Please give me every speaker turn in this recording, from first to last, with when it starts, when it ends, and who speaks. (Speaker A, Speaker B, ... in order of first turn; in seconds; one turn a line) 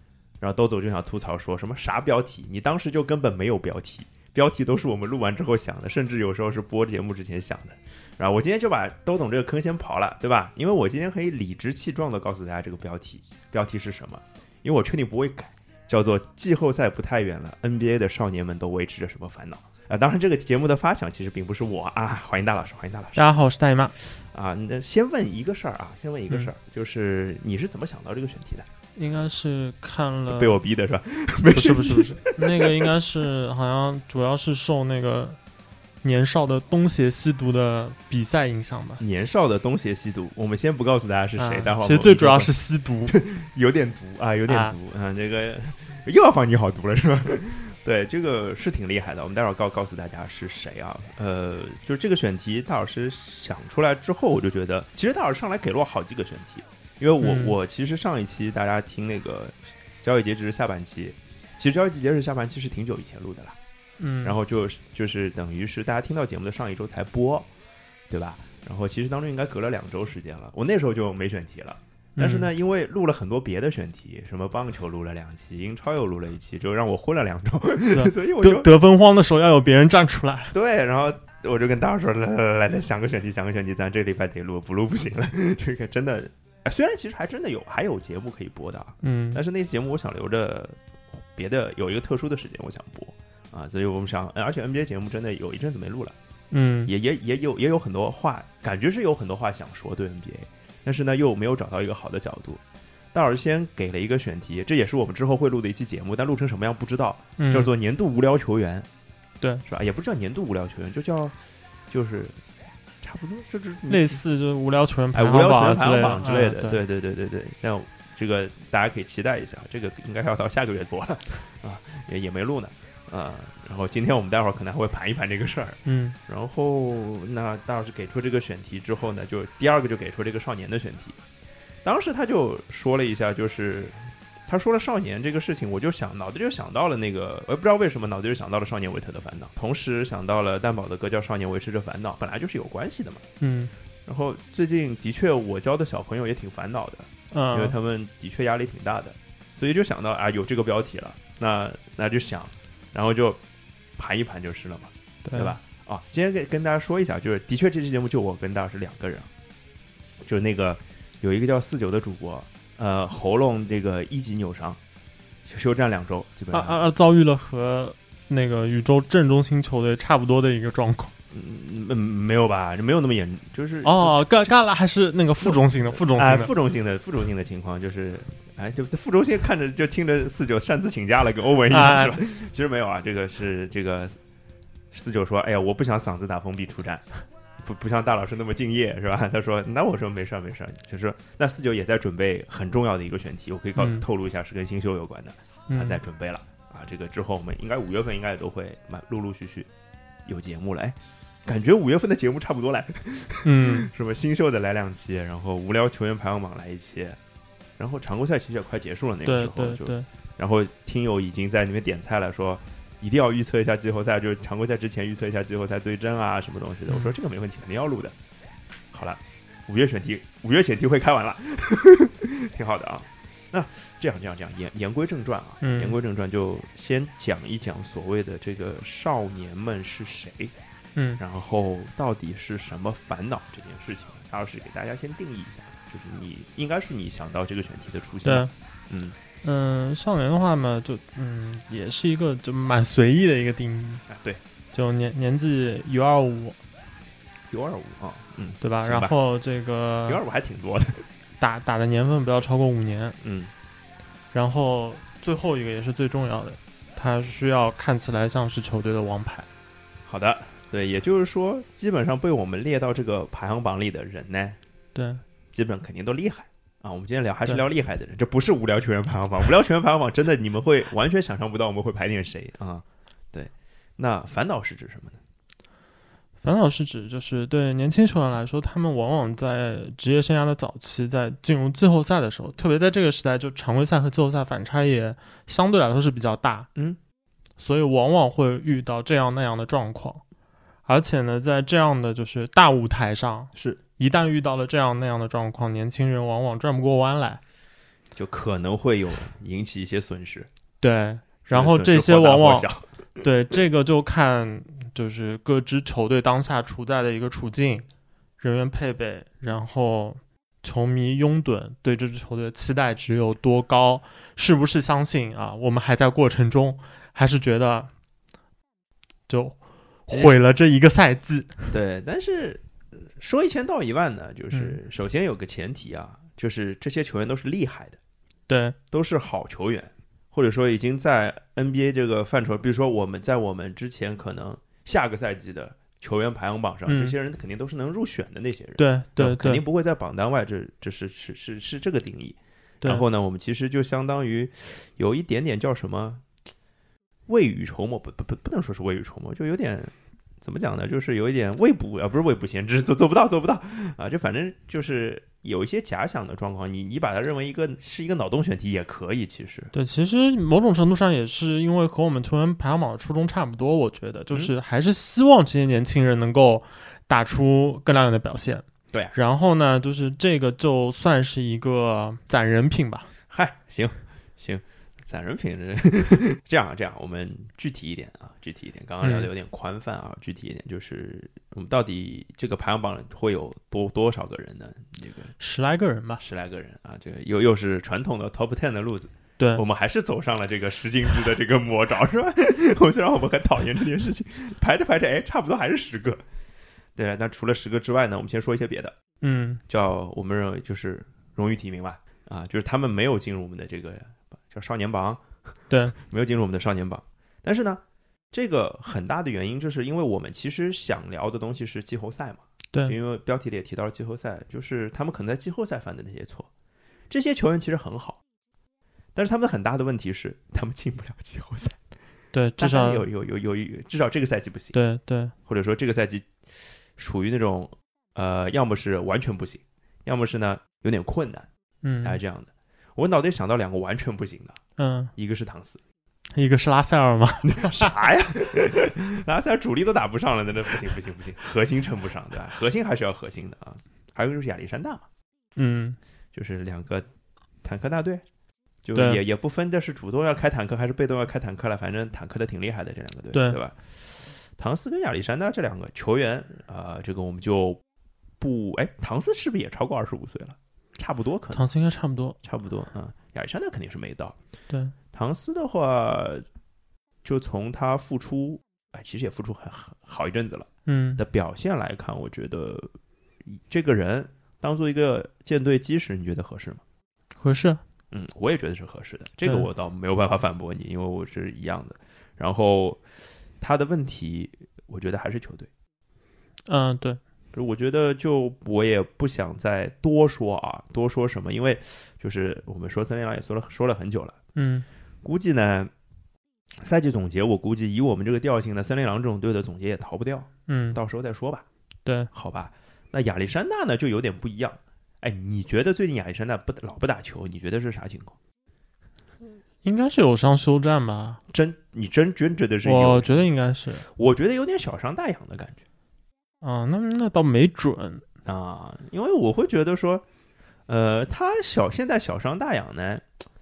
Speaker A: 0.4-23.2
Speaker B: 23.1-23.9
Speaker A: 24.0-28.6
Speaker B: 28.9-30.6
Speaker A: 30.3-32.9
Speaker B: 31.5-35.4
Speaker B: 36.0-39.0
Speaker A: 39.0-42.5
Speaker B: 41.4-43.1
Speaker A: 43.1-63.5
Speaker B: 44.5-44.7
Speaker B: 57.2-57.5
Speaker B: 64.0-64.4
Speaker A: 64.2-67.5
Speaker A: 68.1-78.7
Speaker B: 72.2-72.5
Speaker B: 77.9-80.5
Speaker A: 80.5-96.1
Speaker B: 89.0-89.4
Speaker B: 96.5-96.9
Speaker A: 96.8-102.6
Speaker A: 103.1-108.9
Speaker B: 107.4-107.7
Speaker A: 109.7-111.3
Speaker A: 111.9-112.4
Speaker A: 113.0-114.2
Speaker B: 113.9-116.8
Speaker A: 115.1-131.2
Speaker B: 125.8-126.2
Speaker A: 131.8-143.2
Speaker B: 143.4-143.7
Speaker A: 144.1-153.4
Speaker B: 147.3-147.8
Speaker A: 154.0-159.3
Speaker B: 155.2-155.6
Speaker A: 160.2-164.8
Speaker A: 165.5-166.8
Speaker B: 166.5-171.1
Speaker A: 171.3-174.4
Speaker B: 173.8-176.5
Speaker A: 175.4-184.2
Speaker B: 181.7-182.2
Speaker A: 184.9-187.1
Speaker A: 187.6-199.7
Speaker B: 193.8-194.0
Speaker B: 195.7-196.0
Speaker A: 200.2-207.2
Speaker B: 203.4-203.9
Speaker A: 207.8-218.1
Speaker B: 209.2-210.1
Speaker B: 216.9-217.1
Speaker A: 218.9-230.5
Speaker B: 225.6-226.0
Speaker B: 230.9-231.2
Speaker A: 231.2-239.2
Speaker B: 238.2-238.5
Speaker B: 239.4-244.0
Speaker A: 244.1-244.4
Speaker B: 244.7-246.6
Speaker A: 247.5-249.1
Speaker B: 248.6-250.2
Speaker A: 250.1-251.1
Speaker B: 251.4-253.2
Speaker A: 253.2-253.5
Speaker B: 254.3-259.5
Speaker A: 260.1-264.6
Speaker B: 264.9-265.2
Speaker A: 265.5-275.2
Speaker B: 276.4-286.7
Speaker B: 287.6-290.2
Speaker B: 290.9-297.4
Speaker A: 293.5-293.8
Speaker A: 298.1-300.5
Speaker B: 300.8-302.7
Speaker A: 301.5-302.8
Speaker B: 303.2-307.9
Speaker B: 308.4-317.9
Speaker B: 319.3-321.7
Speaker A: 320.1-320.4
Speaker A: 321.7-322.6
Speaker A: 323.2-328.0
Speaker B: 324.5-324.8
Speaker B: 328.5-328.8
Speaker A: 328.9-346.2
Speaker B: 336.9-337.1
Speaker B: 338.8-339.6
Speaker A: 347.3-359.7
Speaker B: 359.7-373.1
Speaker A: 373.3-385.3
Speaker B: 379.0-379.3
Speaker B: 385.4-386.2
Speaker A: 386.2-396.2
Speaker B: 389.4-389.6
Speaker A: 396.9-398.9
Speaker B: 399.2-399.6
Speaker A: 399.7-405.2
Speaker B: 405.7-405.9
Speaker A: 405.9-407.8
Speaker A: 408.3-416.5
Speaker A: 417.1-418.2
Speaker A: 419.1-421.8
Speaker B: 422.3-423.1
Speaker A: 422.6-424.8
Speaker B: 424.7-425.3
Speaker A: 425.4-426.3
Speaker A: 427.0-431.5
Speaker B: 431.8-432.2
Speaker A: 432.0-434.6
Speaker B: 434.8-435.1
Speaker A: 435.1-435.8
Speaker B: 436.3-437.9
Speaker A: 437.4-445.1
Speaker B: 445.6-446.0
Speaker A: 446.3-447.1
Speaker A: 447.6-448.2
Speaker A: 448.8-457.8
Speaker B: 448.9-449.2
Speaker B: 453.3-453.6
Speaker A: 458.4-461.6
Speaker B: 461.5-462.4
Speaker A: 462.4-464.4
Speaker A: 465.1-466.4
Speaker A: 467.2-472.9
Speaker B: 470.9-471.2
Speaker A: 473.5-476.8
Speaker B: 477.4-477.8
Speaker A: 478.1-483.0
Speaker A: 483.6-485.7
Speaker B: 486.6-487.2
Speaker A: 487.5-494.4
Speaker B: 494.5-494.9
Speaker A: 495.2-495.9
Speaker A: 496.8-501.6
Speaker B: 500.7-501.0
Speaker B: 502.0-502.3
Speaker A: 502.3-508.4
Speaker B: 509.8-511.4
Speaker A: 511.5-513.4
Speaker B: 512.8-514.0
Speaker A: 514.0-515.8
Speaker B: 516.6-518.2
Speaker A: 518.4-520.2
Speaker A: 520.9-523.2